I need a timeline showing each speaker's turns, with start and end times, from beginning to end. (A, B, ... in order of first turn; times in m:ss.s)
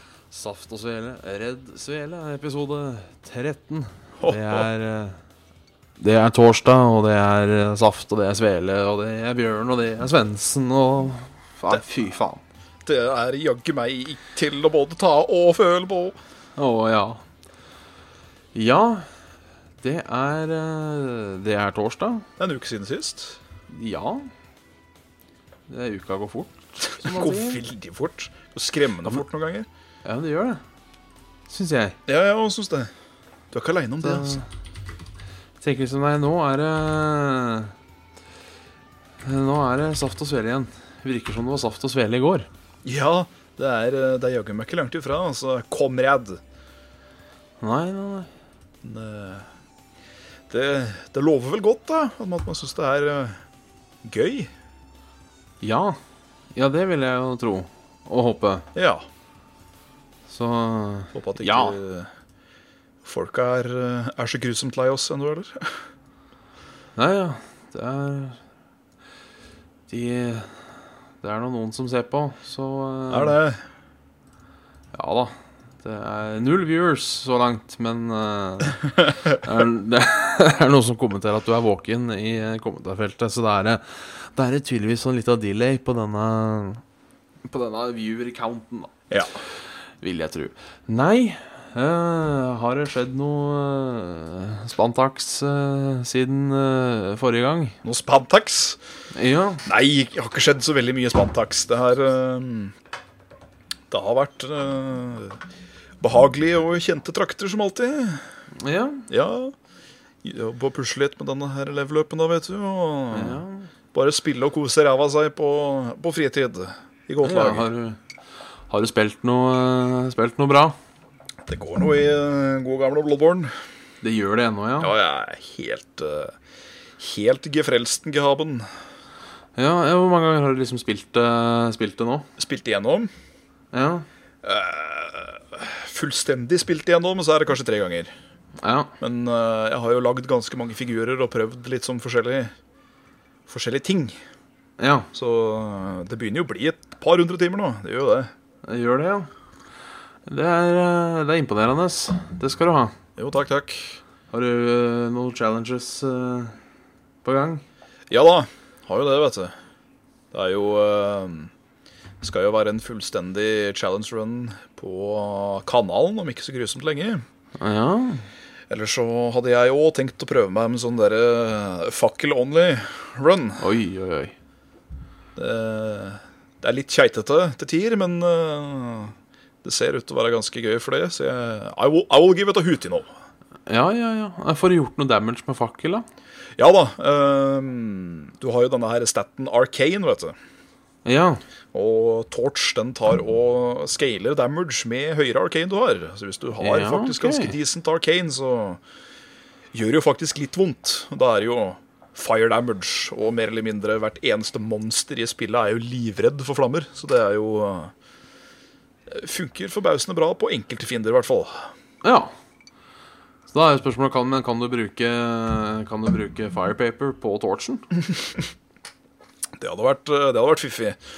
0:00.3-0:05.2 A
0:04.2-0:04.7 B
0:06.0-0:12.4 A
0:12.8-0:16.2 B
0:16.6-0:17.2 A
0:18.5-0:19.1 A
0:19.8-0:22.3 A
0:22.4-0:23.4 B
0:23.7-0:24.3 A
0:25.7-0:27.6 A
0:26.8-0:29.7 B
0:30.0-0:30.6 A
0:31.5-0:32.0 A
0:32.1-0:32.9 B
0:33.5-0:34.4 B
0:34.0-0:34.4 A
0:35.6-0:37.7 A
0:39.2-0:42.5 A
0:42.8-0:46.4 B
0:47.6-0:48.3 A
0:48.8-0:49.5 B
0:50.5-0:53.4 B
0:54.0-0:54.5 B
0:55.6-0:56.0 A
0:56.5-0:58.7 A
0:58.7-0:59.0 B
1:00.3-1:01.8 A
1:01.1-1:02.1 B
1:03.0-1:05.8 B
1:07.0-1:08.4 A
1:09.9-1:10.6 A
1:11.2-1:13.4 A
1:13.1-1:13.6 B
1:14.9-1:26.8 A
1:27.5-1:28.9 A
1:29.1-1:29.4 B
1:30.0-1:37.8 A
1:37.8-1:38.8 B
1:39.1-1:39.6 A
1:39.6-1:42.7 B
1:43.9-1:45.4 B
1:46.0-1:48.2 B
1:48.6-1:49.1 A
1:49.1-1:49.5 B
1:50.2-1:53.4 B
1:53.1-1:53.7 A
1:53.9-1:57.7 B
1:57.2-1:58.0 A
1:58.7-2:00.8 A
2:01.4-2:03.5 B
2:04.0-2:04.9 A
2:04.8-2:06.3 B
2:07.0-2:08.7 B
2:09.6-2:12.3 A
2:12.4-2:13.1 B
2:13.7-2:14.0 A
2:14.4-2:18.1 B
2:18.6-2:18.9 A
2:19.0-2:22.5 B
2:23.5-2:24.2 B
2:24.8-2:25.1 A
2:25.1-2:28.3 B
2:28.6-2:29.3 A
2:30.2-2:32.9 A
2:33.2-2:34.0 B
2:34.3-2:36.6 A
2:37.2-2:37.6 A
2:38.1-2:39.5 B
2:40.3-2:41.5 B
2:42.2-2:47.2 B
2:47.6-2:48.2 A
2:48.7-2:53.6 B
2:53.6-2:54.3 A
2:55.4-3:03.1 B
3:03.7-3:06.0 A
3:06.6-3:10.3 B
3:11.0-3:11.4 A
3:11.7-3:18.8 B
3:16.6-3:17.5 A
3:19.7-3:27.9 B
3:29.1-3:31.7 B
3:32.0-3:32.3 A
3:33.5-3:37.9 A
3:39.6-3:41.0 B